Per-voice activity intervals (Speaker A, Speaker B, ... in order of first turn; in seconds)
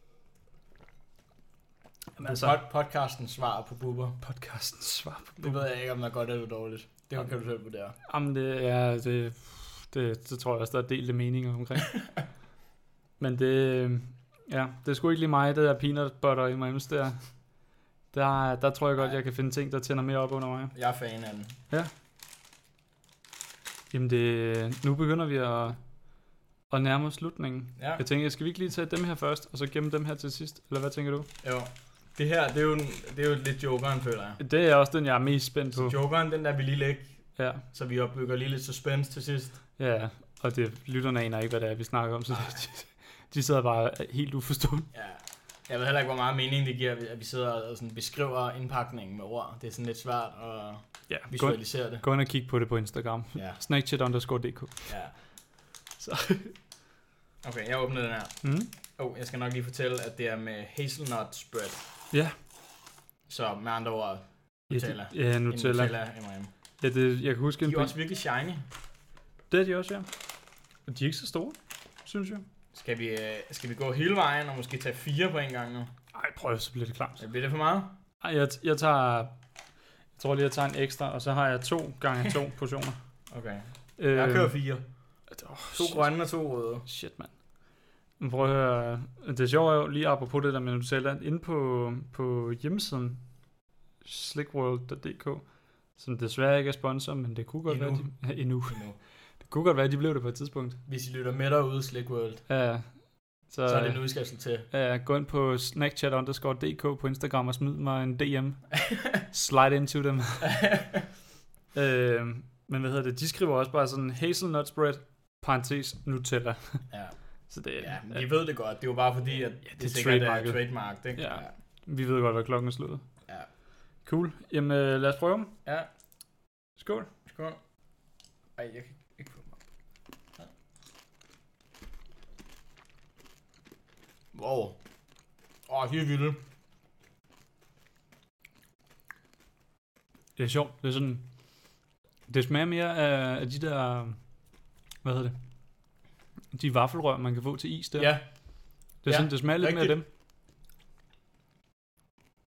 Speaker A: 2.2-2.6, 4.2-5.6, 8.1-12.0, 13.2-17.4, 18.1-20.7, 23.9-25.8, 26.7-31.3, 34.4-36.0, 37.4-37.6, 39.8-44.9, 51.1-55.0, 56.0-56.5, 58.4-58.7, 64.7-65.9, 66.8-67.9, 69.5-70.1, 70.9-72.4, 76.1-77.2, 78.2-79.3, 80.2-83.0, 84.0-84.6, 85.3-86.1, 86.8-87.4, 88.2-93.2, 94.0-98.9, 99.4-100.8, 102.5-104.1, 104.7-110.6, 111.7-116.9, 117.5-118.2, 119.7-123.0, 124.0-125.5, 126.8-127.1, 140.4-141.2, 142.3-144.2, 145.0-145.4, 146.5-148.1, 149.0-150.1
Speaker B: 2.2-4.2, 5.4-7.9, 20.7-21.6, 27.8-28.0, 31.4-34.4, 35.7-39.6, 42.3-42.6, 44.9-52.0, 53.3-53.6, 54.9-55.1, 57.4-61.8, 63.3-66.5, 67.6-68.7, 72.7-75.9, 77.2-78.0, 83.3-84.9, 85.7-86.9, 97.7-99.0, 100.9-102.4, 103.7-104.7, 108.9-109.2, 110.4-111.0, 116.9-117.1, 117.8-121.5, 127.2-127.6, 128.6-129.6, 134.3-134.8, 135.7-136.4, 148.0-148.3, 149.0-150.0